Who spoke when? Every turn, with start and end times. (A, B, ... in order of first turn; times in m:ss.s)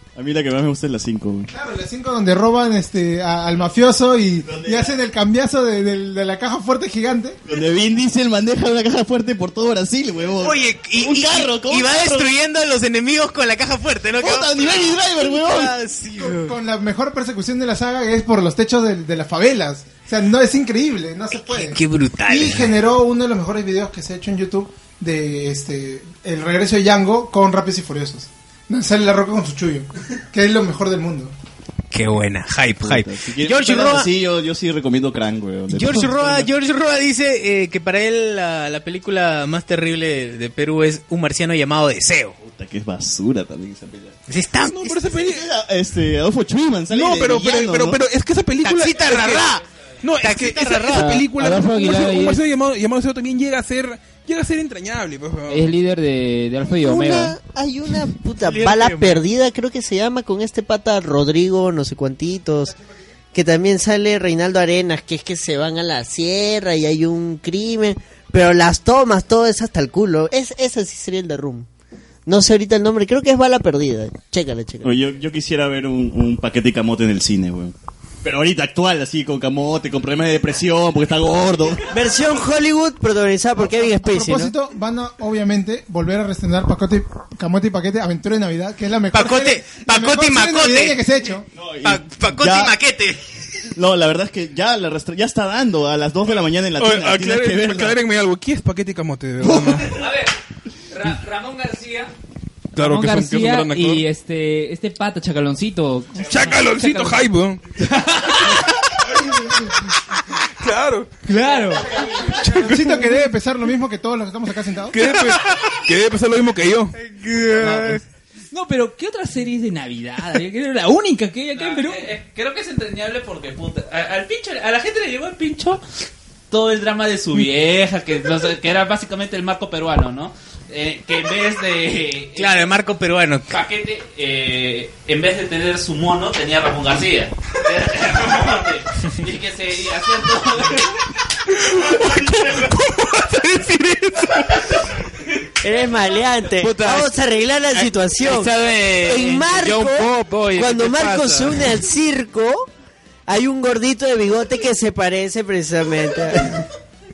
0:00.2-0:01.5 A
0:01.5-0:07.4 B
0:04.4-0:04.9 A
0:07.4-0:12.3 A
0:10.4-0:16.5 C
0:14.2-0:15.8 A
0:16.2-0:31.3 B
0:21.4-0:22.8 C
0:31.9-0:34.1 C
0:32.8-0:36.5 A
0:35.7-0:42.4 C
0:42.4-0:44.2 A
0:44.3-0:45.0 C
0:44.6-0:45.4 D
0:45.1-0:48.0 A
0:46.9-0:55.7 D
0:48.6-0:49.6 C
0:50.2-0:51.1 C
0:50.9-0:52.4 E
0:55.5-0:57.4 E
0:56.7-1:02.7 F
0:58.4-0:59.2 C
1:03.3-1:11.7 F
1:12.2-1:15.0 F
1:14.8-1:22.0 A
1:21.9-1:24.5 F
1:23.6-1:31.5 B
1:29.1-1:31.0 C
1:31.5-1:32.8 A
1:31.8-1:33.2 C
1:33.7-1:38.0 A
1:36.8-1:40.0 D
1:39.4-1:39.9 A
1:39.8-1:40.3 G
1:40.9-1:42.1 G
1:42.8-1:44.0 D
1:42.8-1:47.2 G
1:46.2-1:47.6 D
1:47.8-1:48.7 G
1:50.5-1:51.2 D
1:51.2-1:52.0 G
1:52.3-1:55.1 B
1:52.4-1:53.1 D
1:54.9-1:56.9 D
1:57.0-1:58.0 C
1:57.6-1:58.0 G
1:58.5-2:02.1 G
2:01.5-2:05.8 H
2:06.5-2:12.7 H
2:12.3-2:13.6 C
2:13.5-2:21.0 H
2:25.6-2:32.7 F
2:26.6-2:27.1 E
2:27.7-2:31.7 E
2:33.3-2:36.6 F